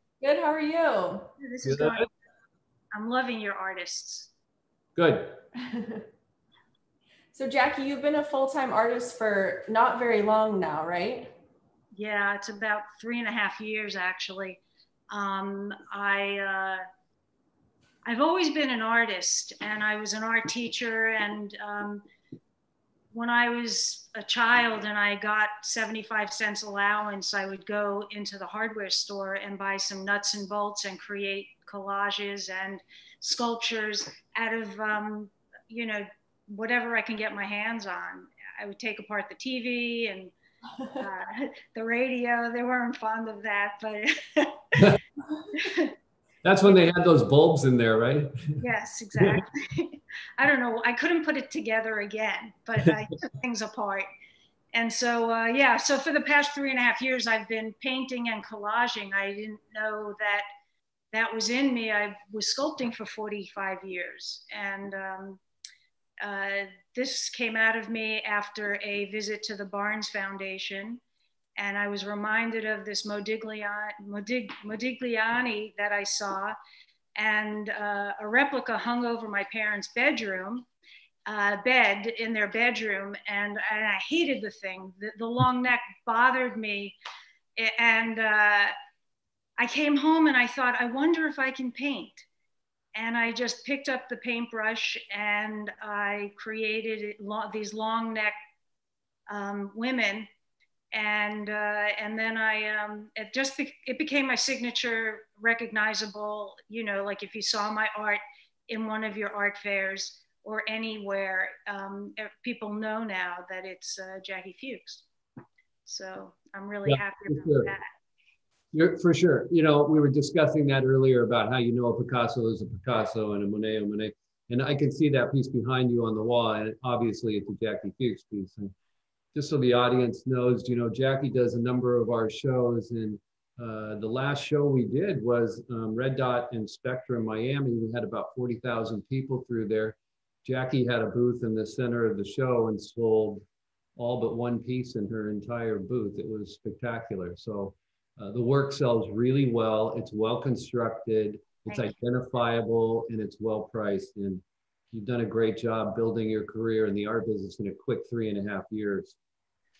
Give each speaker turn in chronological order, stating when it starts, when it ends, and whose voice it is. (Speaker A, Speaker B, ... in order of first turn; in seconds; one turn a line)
Speaker A: 0.2-1.3
Speaker B: 1.4-2.1
Speaker C: 1.6-2.0
Speaker B: 2.9-4.3
Speaker C: 5.0-5.4
Speaker A: 5.7-6.0
Speaker A: 7.3-11.3
Speaker B: 11.9-16.8
Speaker B: 18.0-22.0
Speaker B: 23.1-40.3
Speaker B: 40.9-44.8
Speaker B: 45.5-45.9
Speaker C: 46.4-48.6
Speaker B: 48.6-54.1
Speaker B: 54.7-60.4
Speaker B: 61.1-65.4
Speaker B: 66.2-71.0
Speaker B: 71.6-76.5
Speaker B: 77.2-80.7
Speaker B: 81.3-87.0
Speaker B: 87.6-88.7
Speaker B: 89.6-92.3
Speaker B: 92.9-98.3
Speaker B: 99.3-100.3
Speaker B: 100.9-115.0
Speaker B: 115.8-117.8
Speaker C: 116.8-117.7
Speaker C: 118.7-128.7
Speaker C: 129.3-143.4
Speaker C: 144.0-159.2
Speaker B: 151.7-151.9